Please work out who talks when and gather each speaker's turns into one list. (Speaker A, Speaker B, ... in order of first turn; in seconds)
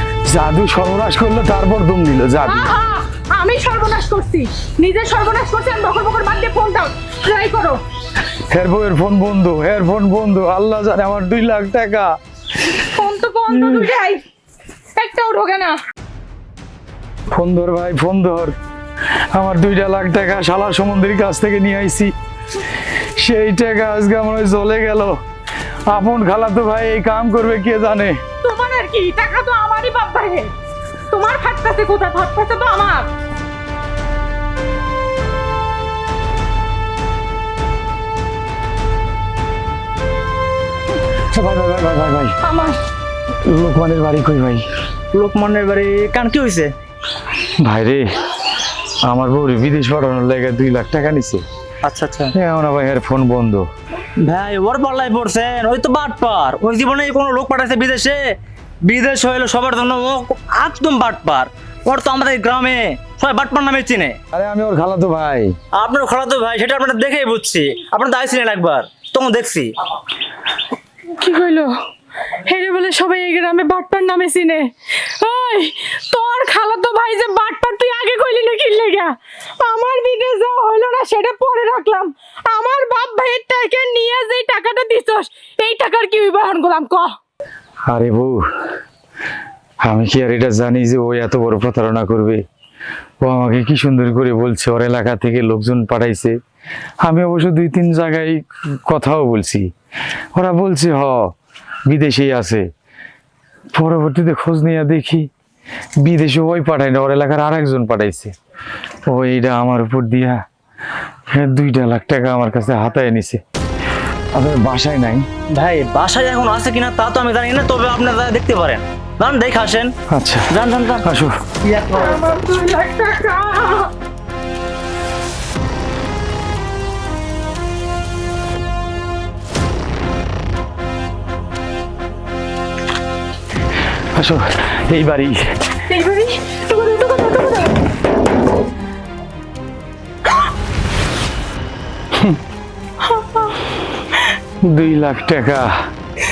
Speaker A: 0.3-2.7, 8.5-12.1, 13.5-13.9, 17.3-18.6, 19.3-22.1, 23.2-25.2, 25.9-28.2, 41.3-42.4, 43.5-44.6, 47.6-48.3, 49.0-51.4, 52.3-53.7, 64.3-65.5, 87.9-88.5, 89.8-92.4, 93.2-96.4, 97.0-99.7, 100.3-101.3, 101.9-102.7, 103.7-105.3, 106.0-108.3, 109.1-110.4, 111.3-113.4, 114.3-115.3, 120.1-120.5, 121.0-121.4, 134.1-135.6, 144.7-145.7
Speaker B: 2.4-7.8, 12.8-14.2, 15.0-15.8, 28.4-30.5, 31.1-33.1, 42.4-42.8, 71.2-71.7, 72.5-87.1, 121.9-123.9, 135.9-137.7, 143.0-143.6
Speaker C: 45.1-46.7, 51.8-52.3, 54.2-58.2, 58.9-64.2, 65.8-69.7, 115.5-119.9, 120.5-121.0, 121.7-122.2